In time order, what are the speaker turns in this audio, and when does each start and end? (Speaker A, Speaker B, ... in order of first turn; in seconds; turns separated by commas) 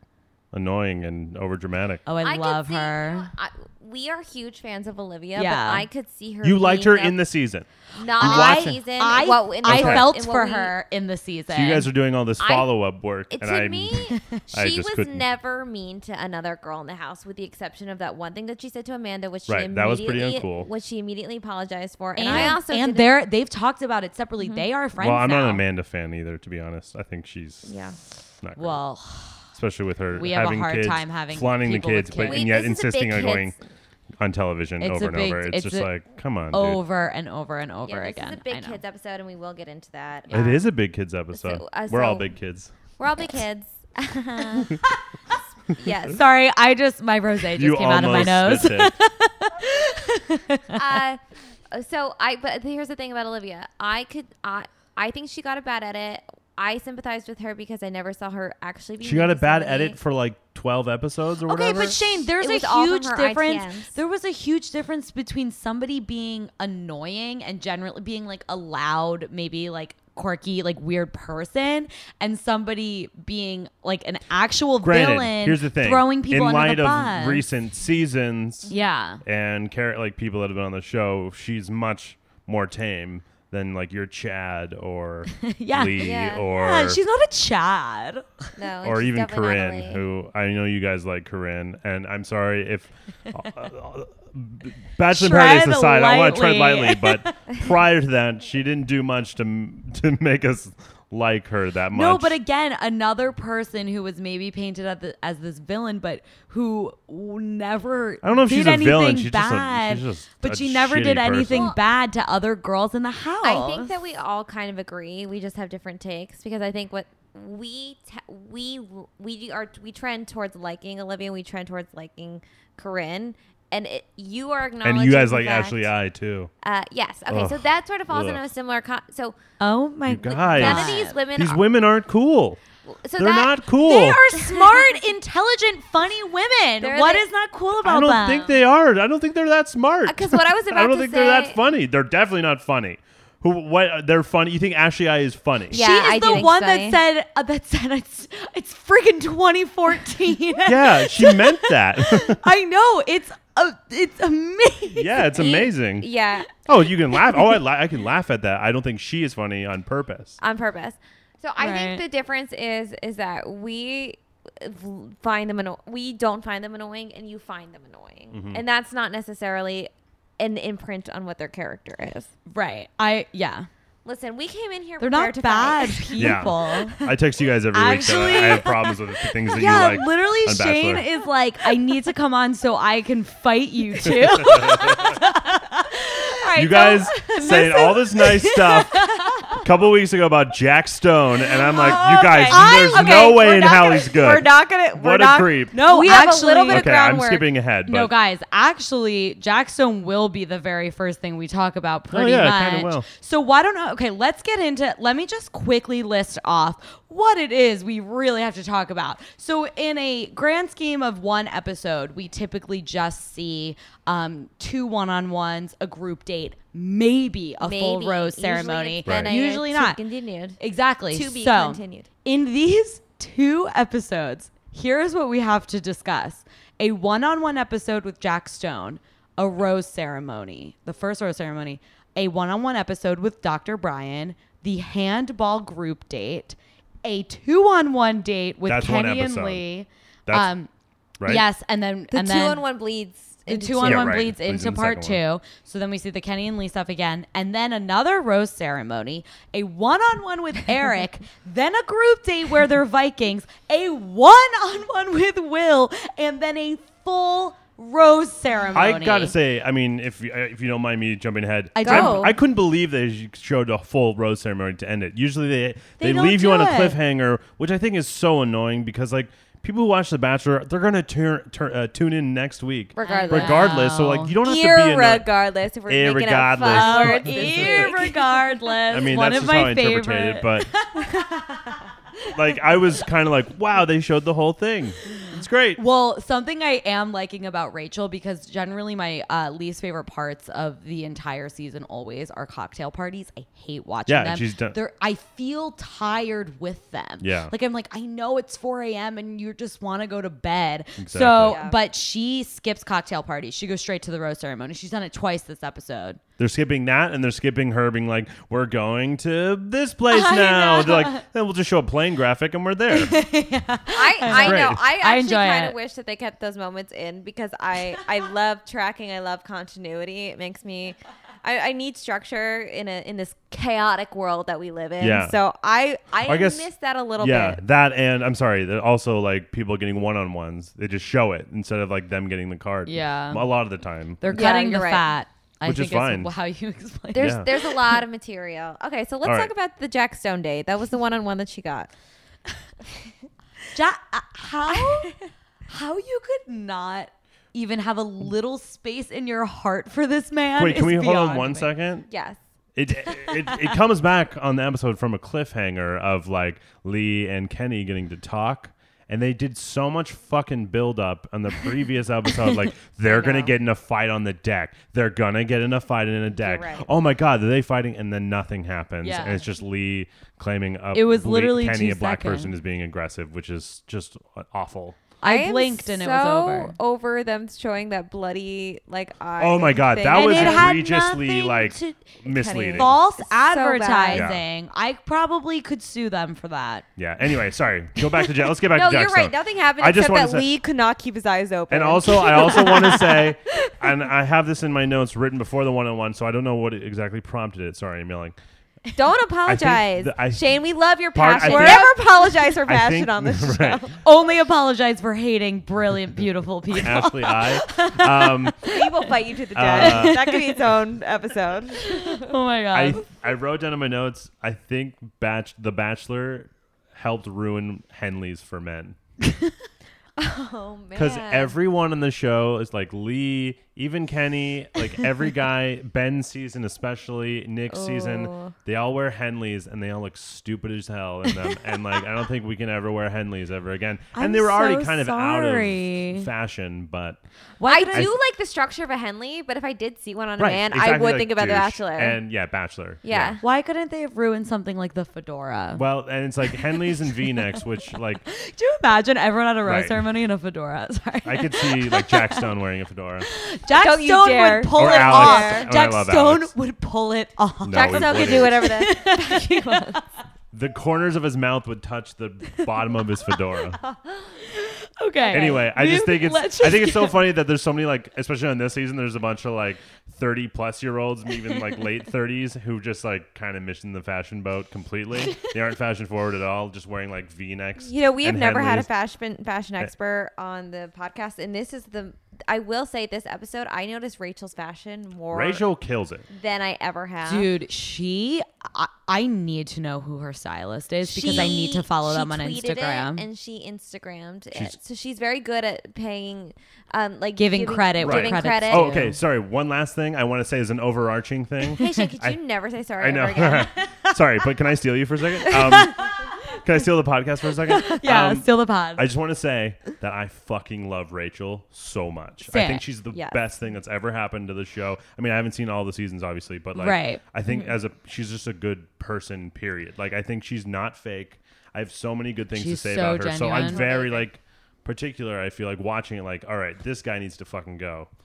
Speaker A: 0.5-2.0, Speaker B: 2.0-3.3, Speaker C: 2.2-7.2, Speaker B: 5.3-5.8, Speaker A: 6.4-8.8, Speaker C: 7.9-10.8, Speaker B: 8.2-11.9, Speaker A: 9.6-10.1, Speaker A: 11.5-15.2, Speaker C: 12.4-12.7, Speaker C: 13.3-23.1, Speaker A: 19.5-20.7, Speaker B: 22.1-25.6, Speaker A: 22.2-22.6, Speaker C: 24.4-24.6, Speaker A: 25.0-27.8, Speaker C: 27.6-28.0, Speaker A: 28.4-28.8, Speaker B: 28.6-29.4, Speaker A: 29.5-33.5, Speaker B: 30.1-32.4, Speaker C: 32.2-33.6, Speaker A: 34.2-36.8, Speaker B: 34.8-35.9, Speaker B: 36.5-38.8, Speaker C: 37.9-40.5, Speaker B: 40.3-40.6, Speaker A: 40.3-42.7, Speaker C: 41.3-42.3, Speaker C: 43.0-44.8, Speaker C: 45.7-46.2, Speaker B: 46.1-51.0, Speaker A: 47.5-48.9, Speaker C: 50.7-60.0, Speaker A: 59.0-62.0, Speaker B: 61.5-77.4, Speaker C: 62.4-64.0, Speaker A: 74.8-78.7, Speaker B: 78.7-79.2, Speaker A: 79.2-87.0, Speaker B: 85.3-88.3, Speaker C: 86.0-86.5, Speaker C: 88.5-90.0, Speaker A: 88.8-102.4, Speaker B: 95.1-97.4, Speaker B: 101.9-113.9, Speaker A: 108.2-111.7, Speaker C: 113.4-125.9, Speaker A: 124.8-126.5, Speaker C: 126.6-129.4, Speaker A: 127.3-128.4, Speaker B: 129.6-131.2, Speaker A: 130.1-132.6, Speaker C: 130.4-131.6, Speaker C: 132.9-135.0, Speaker A: 133.2-134.2, Speaker B: 133.8-138.6, Speaker C: 136.8-137.2, Speaker A: 137.8-145.8, Speaker C: 140.1-141.6, Speaker C: 145.7-147.0, Speaker B: 145.7-155.2, Speaker A: 150.6-152.4, Speaker A: 154.9-156.1, Speaker C: 155.3-156.5, Speaker A: 156.6-160.4, Speaker C: 160.4-172.3, Speaker B: 161.6-162.0, Speaker A: 168.3-168.6, Speaker B: 172.5-173.7, Speaker C: 174.0-176.6, Speaker B: 175.0-177.1, Speaker A: 176.2-181.1, Speaker B: 177.7-186.3, Speaker A: 184.0-185.2, Speaker C: 186.2-188.1, Speaker A: 186.5-198.1, Speaker B: 187.4-189.6, Speaker C: 191.6-197.5, Speaker B: 192.4-193.3, Speaker B: 195.7-196.9, Speaker B: 197.9-220.0, Speaker A: 202.1-203.1, Speaker C: 217.6-220.6, Speaker A: 219.0-219.3, Speaker B: 220.6-240.7, Speaker C: 221.1-222.1, Speaker A: 238.6-239.6, Speaker A: 241.2-241.4, Speaker B: 241.2-242.6, Speaker C: 242.1-244.2, Speaker B: 243.5-259.3, Speaker A: 243.8-245.2, Speaker A: 258.7-275.3, Speaker B: 261.7-262.3, Speaker C: 261.8-262.3, Speaker B: 266.0-267.0, Speaker C: 272.9-273.9, Speaker B: 273.0-274.3, Speaker C: 274.4-278.8, Speaker A: 275.9-277.9, Speaker B: 276.6-281.8, Speaker A: 278.9-280.8, Speaker A: 282.3-285.8, Speaker B: 285.8-306.2, Speaker A: 294.1-294.8, Speaker A: 297.2-297.5, Speaker A: 301.0-301.6, Speaker C: 301.4-301.8, Speaker A: 306.4-313.2, Speaker B: 310.1-311.2, Speaker B: 312.9-315.8, Speaker C: 313.9-327.6, Speaker A: 314.3-314.8, Speaker A: 325.0-325.4, Speaker A: 326.2-326.7, Speaker A: 327.2-334.4, Speaker B: 332.9-333.5, Speaker B: 334.2-338.0, Speaker C: 334.3-335.1, Speaker A: 335.6-336.3, Speaker C: 337.1-341.9, Speaker A: 337.2-337.5, Speaker A: 339.2-339.5, Speaker B: 343.7-345.1, Speaker C: 344.7-345.3, Speaker B: 345.7-351.7, Speaker A: 350.6-352.1, Speaker C: 352.1-352.4, Speaker A: 352.7-375.0, Speaker B: 353.1-353.6, Speaker C: 363.1-363.5, Speaker C: 366.3-366.9, Speaker B: 369.0-369.5, Speaker B: 370.9-372.5, Speaker B: 375.2-376.7, Speaker C: 375.2-380.7, Speaker A: 379.4-382.9, Speaker B: 380.1-382.1, Speaker C: 382.2-384.3, Speaker B: 382.7-386.9, Speaker A: 384.1-384.4, Speaker A: 387.0-390.5, Speaker C: 388.6-393.9, Speaker A: 391.7-398.4, Speaker C: 398.9-404.0, Speaker A: 399.4-400.5, Speaker A: 401.1-402.0, Speaker B: 401.4-401.9, Speaker A: 402.6-403.9, Speaker B: 404.0-408.9, Speaker A: 406.7-408.7, Speaker C: 408.6-412.3, Speaker A: 409.5-410.2, Speaker B: 409.7-410.6, Speaker B: 411.8-413.0, Speaker A: 412.7-419.0, Speaker C: 420.2-421.5, Speaker A: 420.9-437.2, Speaker C: 427.7-428.5, Speaker B: 431.3-431.6, Speaker B: 434.1-436.3, Speaker B: 437.6-438.1, Speaker C: 437.7-442.2, Speaker A: 440.4-443.4, Speaker C: 443.0-443.4, Speaker B: 443.4-445.8, Speaker A: 445.8-448.2, Speaker B: 448.2-452.5, Speaker A: 449.6-450.1, Speaker A: 451.2-453.3, Speaker B: 453.2-460.0, Speaker C: 453.7-455.7, Speaker A: 454.7-456.5, Speaker A: 457.6-458.7, Speaker C: 457.7-460.0, Speaker A: 460.5-463.8, Speaker B: 464.4-467.3, Speaker A: 465.3-478.9, Speaker C: 477.8-485.6, Speaker A: 485.3-486.2, Speaker C: 486.3-487.5, Speaker B: 487.2-493.2, Speaker C: 491.0-499.0, Speaker A: 491.2-491.5, Speaker A: 494.5-494.8, Speaker B: 497.4-499.2, Speaker A: 498.0-502.4, Speaker C: 501.7-503.8, Speaker B: 501.8-502.1, Speaker A: 503.0-528.1, Speaker C: 505.6-505.9, Speaker B: 507.8-509.1, Speaker B: 512.5-512.8, Speaker C: 513.1-513.4, Speaker B: 516.7-517.2, Speaker C: 517.5-517.7, Speaker B: 522.5-523.9, Speaker C: 523.5-524.3